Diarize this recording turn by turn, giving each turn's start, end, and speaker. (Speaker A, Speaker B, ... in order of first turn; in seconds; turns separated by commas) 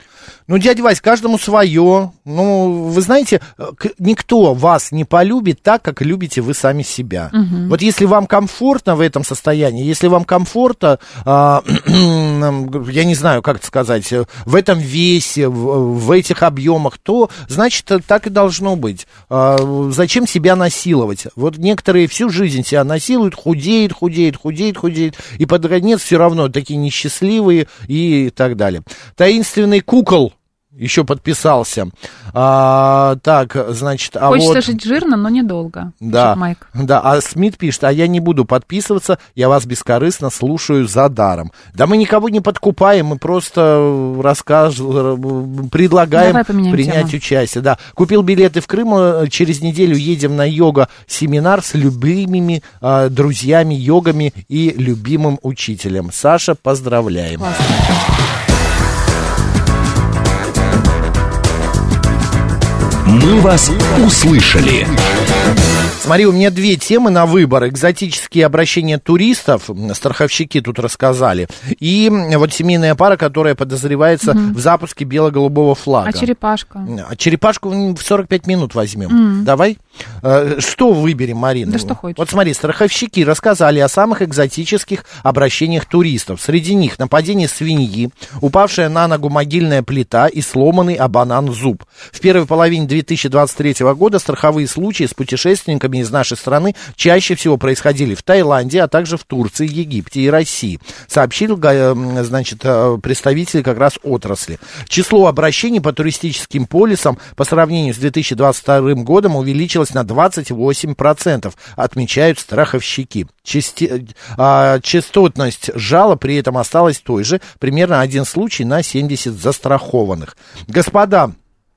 Speaker A: 0.5-34.7, Speaker B: 7.3-7.7, Speaker B: 34.3-36.6, Speaker A: 36.0-57.5, Speaker B: 46.1-47.1, Speaker B: 57.4-57.8, Speaker C: 63.0-65.0, Speaker A: 66.0-76.3, Speaker B: 74.2-74.6, Speaker B: 76.0-76.9, Speaker A: 76.8-121.3, Speaker B: 79.1-79.5, Speaker B: 81.7-82.2